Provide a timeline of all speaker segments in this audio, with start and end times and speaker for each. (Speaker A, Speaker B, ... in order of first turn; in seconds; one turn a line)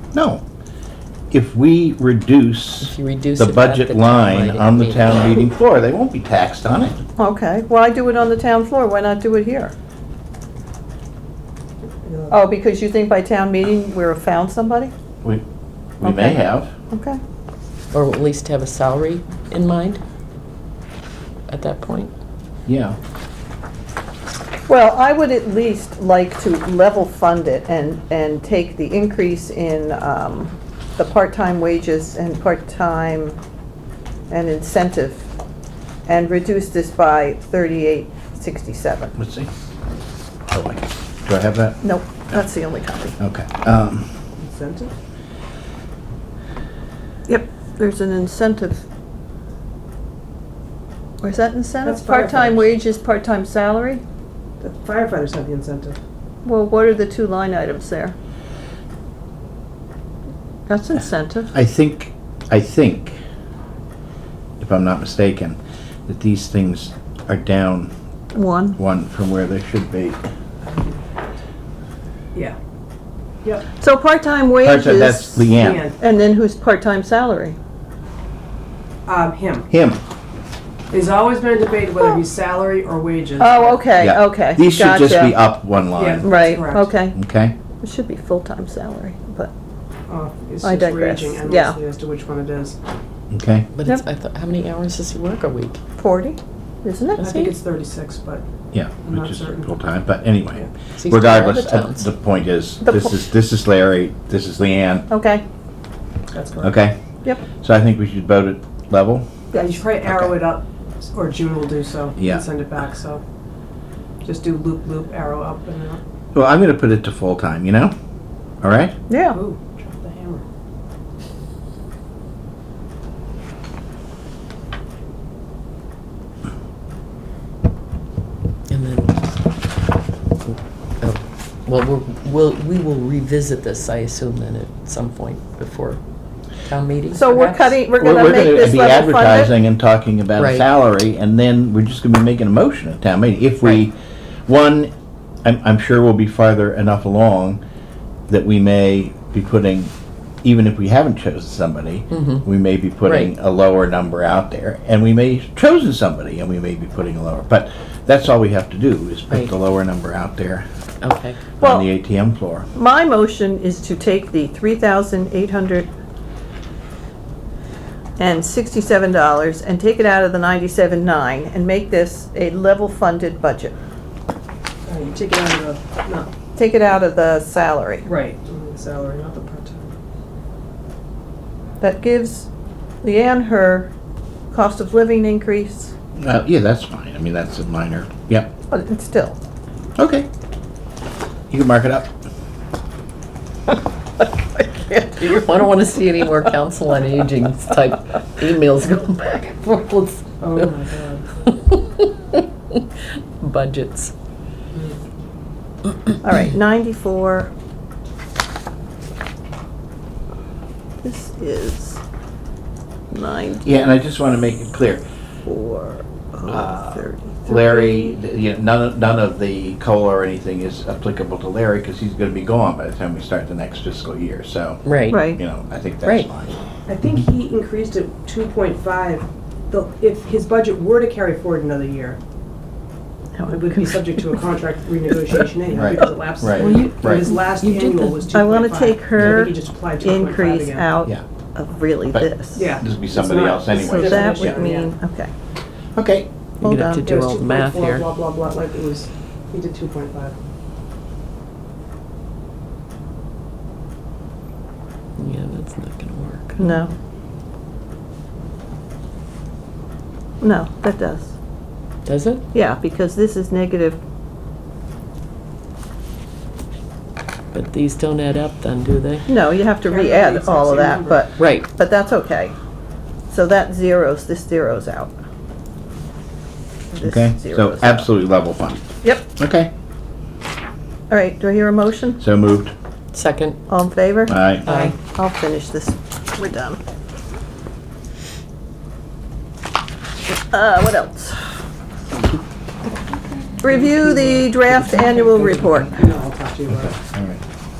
Speaker A: 0.1-0.4
Speaker A: 1.3-7.0
Speaker B: 2.8-5.3
Speaker C: 7.2-9.7
Speaker D: 12.0-12.3
Speaker C: 12.3-14.9
Speaker A: 16.0-16.7
Speaker C: 16.0-17.2
Speaker B: 17.9-20.0
Speaker B: 21.5-22.1
Speaker A: 22.7-23.0
Speaker C: 24.7-33.4
Speaker C: 34.3-35.3
Speaker C: 36.1-39.1
Speaker A: 39.2-39.5
Speaker A: 40.5-42.4
Speaker C: 41.8-43.2
Speaker A: 43.2-44.1
Speaker D: 44.4-44.9
Speaker C: 47.3-48.8
Speaker C: 51.2-54.0
Speaker D: 51.8-52.7
Speaker D: 54.6-56.0
Speaker C: 56.4-58.2
Speaker C: 60.7-61.5
Speaker A: 61.5-63.2
Speaker A: 64.6-67.9
Speaker C: 68.3-68.8
Speaker A: 68.8-70.2
Speaker D: 70.6-71.2
Speaker C: 73.8-77.6
Speaker A: 74.6-75.9
Speaker D: 75.6-76.0
Speaker D: 79.1-79.7
Speaker A: 79.7-80.0
Speaker D: 80.9-83.8
Speaker C: 83.4-85.4
Speaker A: 84.0-86.3
Speaker D: 86.0-87.0
Speaker C: 86.2-87.2
Speaker A: 87.2-87.5
Speaker C: 87.8-89.5
Speaker D: 90.1-92.8
Speaker C: 90.6-91.8
Speaker A: 93.3-93.7
Speaker B: 93.7-95.8
Speaker C: 96.0-97.5
Speaker D: 97.2-98.5
Speaker B: 97.2-97.5
Speaker A: 98.7-105.1
Speaker D: 99.0-99.7
Speaker B: 101.0-102.1
Speaker C: 102.8-103.2
Speaker C: 105.1-105.4
Speaker D: 106.3-106.8
Speaker A: 106.6-107.0
Speaker A: 107.6-109.3
Speaker C: 109.5-109.8
Speaker D: 109.5-113.2
Speaker A: 110.1-110.3
Speaker A: 112.2-112.4
Speaker D: 114.2-116.0
Speaker A: 116.3-117.9
Speaker A: 118.6-119.0
Speaker C: 119.1-119.4
Speaker D: 119.3-120.4
Speaker B: 128.7-129.2
Speaker B: 131.0-136.0
Speaker B: 136.6-137.8
Speaker C: 137.1-139.5
Speaker A: 138.0-144.0
Speaker B: 140.4-140.7
Speaker A: 144.5-144.9
Speaker A: 145.4-147.6
Speaker A: 148.3-149.9
Speaker A: 150.4-160.7
Speaker B: 152.1-152.4
Speaker B: 153.1-153.3
Speaker B: 161.0-161.4
Speaker A: 161.6-162.7
Speaker C: 161.6-161.9
Speaker C: 162.7-165.9
Speaker C: 168.2-173.8
Speaker D: 174.9-176.3
Speaker C: 176.6-178.1
Speaker D: 178.1-179.9
Speaker C: 181.8-182.5
Speaker C: 183.0-183.9
Speaker C: 184.5-185.9
Speaker A: 186.2-188.5
Speaker C: 188.7-189.4
Speaker A: 190.0-190.3
Speaker A: 191.5-192.1
Speaker B: 194.6-200.8
Speaker D: 200.4-201.6
Speaker B: 201.5-204.1
Speaker D: 204.7-205.0
Speaker C: 206.2-207.5
Speaker C: 211.0-212.0
Speaker C: 213.1-213.9
Speaker A: 213.6-215.0
Speaker C: 215.5-218.2
Speaker A: 216.5-226.5
Speaker B: 224.8-225.3
Speaker C: 225.1-225.4
Speaker B: 226.0-226.3
Speaker D: 226.9-232.2
Speaker C: 233.4-234.4
Speaker D: 233.5-240.9
Speaker A: 235.7-237.3
Speaker B: 236.6-238.3
Speaker C: 238.3-242.8
Speaker A: 242.1-244.6
Speaker D: 242.6-244.9
Speaker C: 243.4-245.3
Speaker A: 246.0-246.3
Speaker C: 246.6-247.1
Speaker B: 246.6-248.1
Speaker D: 247.0-250.3
Speaker B: 255.2-256.6
Speaker C: 256.6-256.9
Speaker C: 260.4-261.3
Speaker B: 262.1-262.4
Speaker C: 262.5-264.0
Speaker B: 267.5-269.3
Speaker C: 269.3-272.6
Speaker D: 269.8-271.3
Speaker B: 271.4-271.7
Speaker C: 273.3-275.1
Speaker C: 276.9-278.1
Speaker A: 277.0-279.7
Speaker C: 281.1-282.2
Speaker A: 282.2-282.7
Speaker B: 283.1-283.6
Speaker C: 283.7-286.8
Speaker A: 284.3-284.7
Speaker B: 284.7-285.0
Speaker C: 290.3-291.5
Speaker C: 293.6-296.0
Speaker D: 293.7-296.9
Speaker A: 296.7-297.4